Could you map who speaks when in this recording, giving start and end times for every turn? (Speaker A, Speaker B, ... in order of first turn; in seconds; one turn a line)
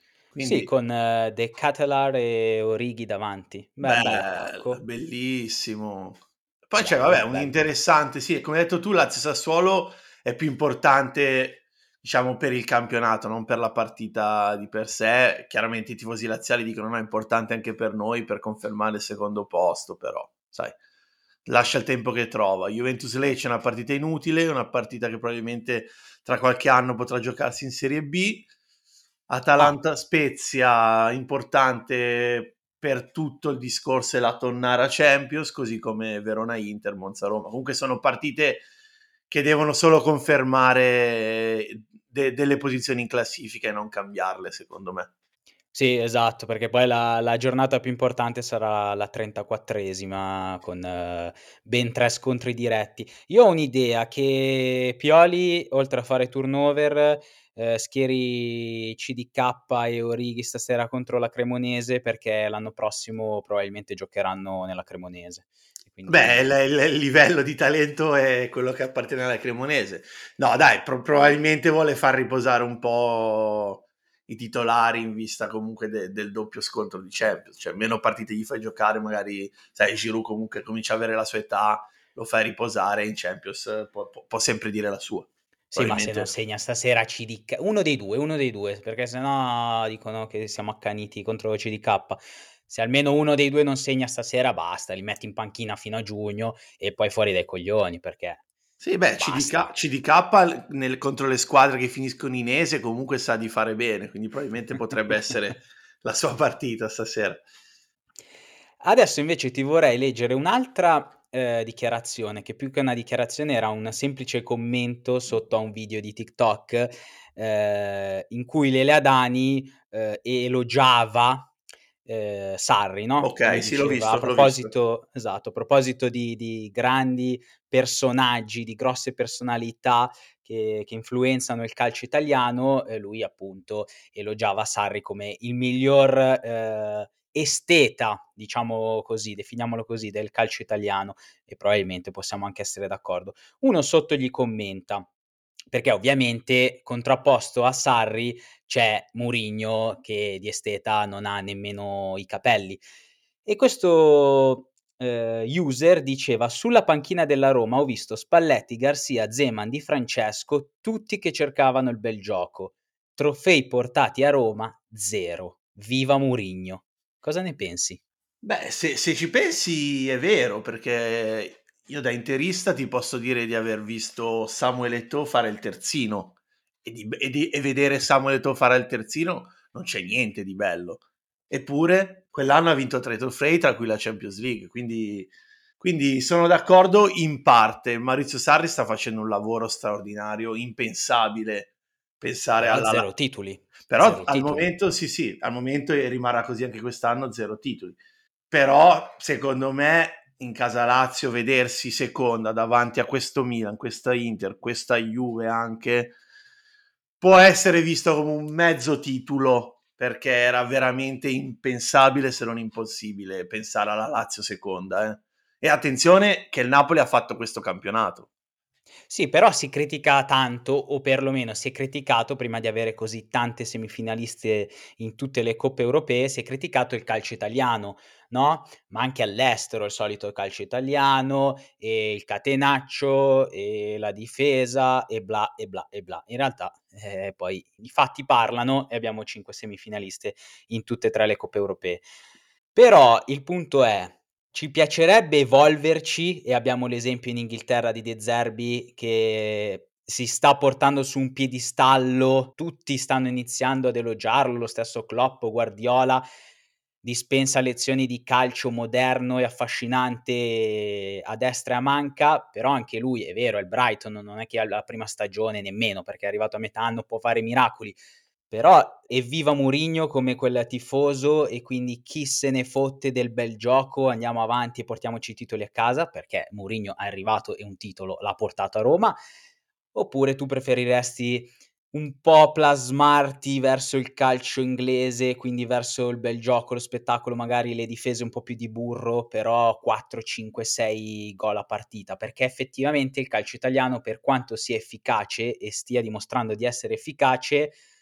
Speaker A: 0.3-0.7
Speaker B: 0.4-4.8
Speaker A: 3.8-20.8
Speaker B: 6.8-7.7
Speaker A: 21.5-28.5
Speaker A: 29.3-38.7
Speaker A: 39.3-45.1
Speaker B: 45.7-66.5
Speaker A: 66.1-86.3
Speaker B: 85.7-98.4
Speaker A: 98.8-107.5
Speaker B: 99.2-99.8
Speaker B: 108.8-121.5
Speaker B: 122.0-145.1
Speaker A: 123.2-124.7
Speaker B: 145.7-152.8
Speaker B: 153.4-168.0
Speaker A: 168.4-193.1
Speaker B: 192.6-194.7
Speaker A: 193.9-198.0
Speaker A: 198.5-206.2
Speaker A: 207.2-218.3
Speaker B: 219.1-242.1
Speaker B: 242.7-256.2
Speaker B: 257.0-279.2
Speaker B: 279.9-297.8